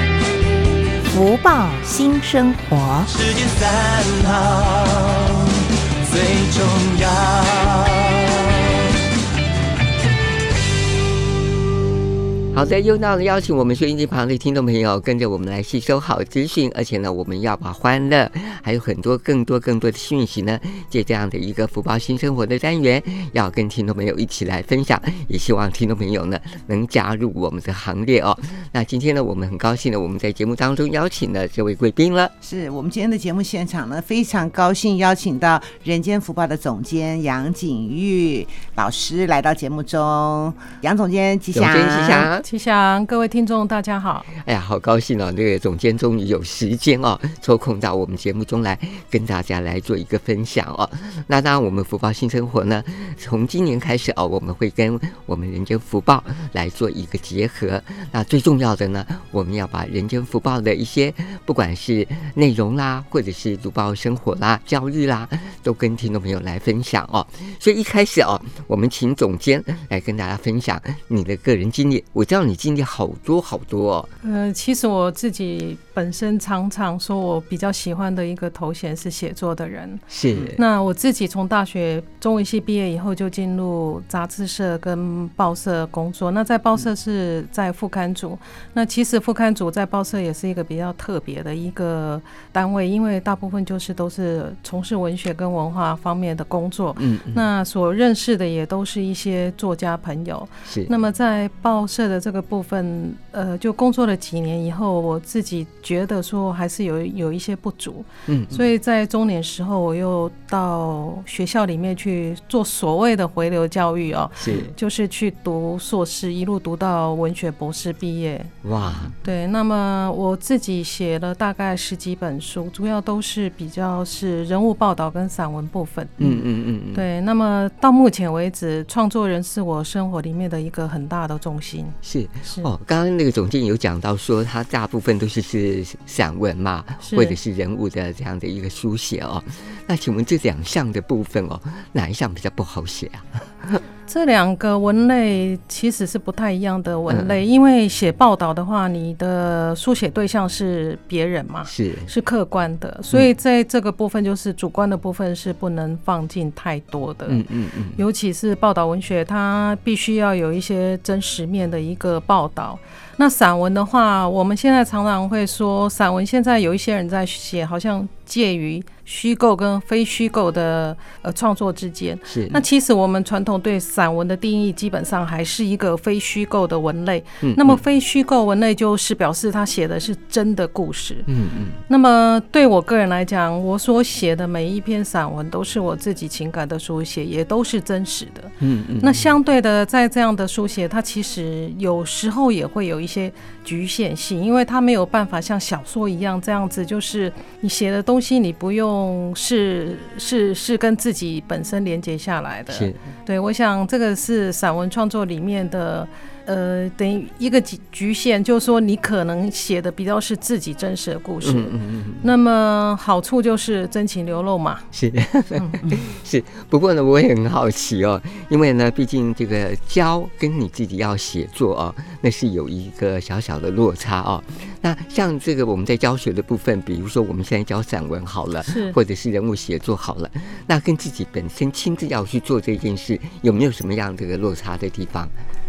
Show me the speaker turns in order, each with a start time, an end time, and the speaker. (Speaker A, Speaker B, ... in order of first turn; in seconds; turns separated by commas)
Speaker A: 1.1-3.1, Speaker B: 3.1-9.0, Speaker C: 12.5-32.3, Speaker D: 32.4-42.3, Speaker C: 41.5-42.5, Speaker E: 42.4-44.3, Speaker C: 44.3-74.1, Speaker E: 74.2-80.0, Speaker C: 80.1-80.6, Speaker E: 80.6-118.5, Speaker C: 97.0-97.5, Speaker C: 108.3-108.6, Speaker C: 114.4-114.7, Speaker C: 118.6-119.1, Speaker E: 119.2-126.2, Speaker C: 126.2-127.0, Speaker E: 126.9-132.7, Speaker C: 132.0-143.8, Speaker E: 137.0-137.4, Speaker E: 144.1-157.4, Speaker C: 151.7-152.1, Speaker C: 157.3-158.0, Speaker E: 158.0-181.3, Speaker C: 172.3-172.6, Speaker C: 177.4-177.8, Speaker C: 181.3-181.8, Speaker E: 181.9-214.9, Speaker C: 188.6-189.3, Speaker C: 202.7-203.1, Speaker C: 211.4-212.2, Speaker C: 214.9-235.3, Speaker E: 215.5-215.8, Speaker E: 228.6-228.9